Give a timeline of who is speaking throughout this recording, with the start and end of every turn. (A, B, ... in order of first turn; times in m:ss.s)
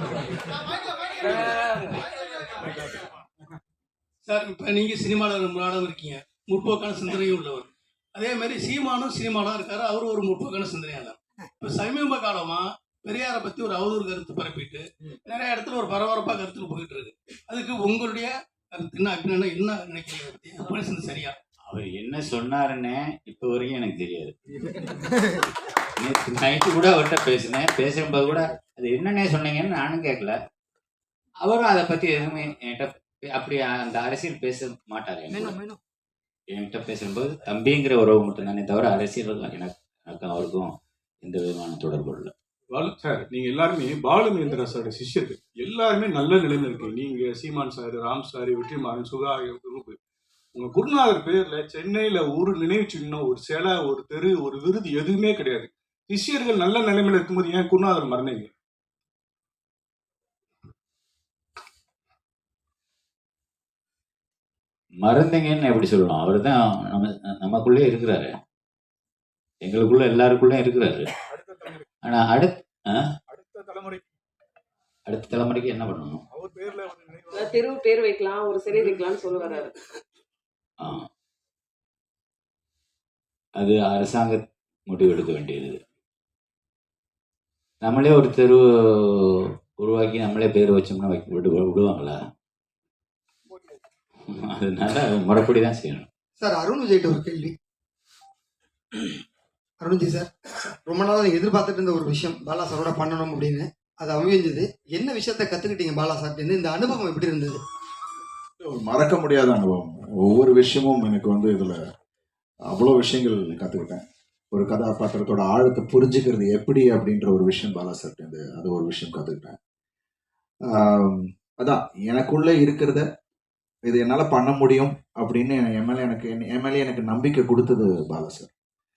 0:04.2-0:21.4 A
0:21.7-0:25.1 B
0:26.0-0:30.4 B
0:31.4-0:35.6 B
0:35.3-0:35.8 C
0:36.5-0:42.3 B
0:42.7-0:50.0 D
0:44.4-0:45.0 E
0:50.6-0:58.5 D
1:05.0-1:08.3 B
1:09.6-1:11.1 B
1:12.0-1:13.0 B
1:15.1-1:16.2 B
1:17.3-1:19.8 E
1:20.8-1:21.1 B
1:23.6-1:25.8 B
1:27.8-1:32.2 B
1:34.3-1:36.1 B
1:36.4-1:37.5 C
1:39.8-1:40.3 C
1:40.8-1:47.6 C
1:48.6-1:51.8 F
1:52.7-1:59.6 F
2:00.7-2:03.0 F
2:03.9-2:08.5 F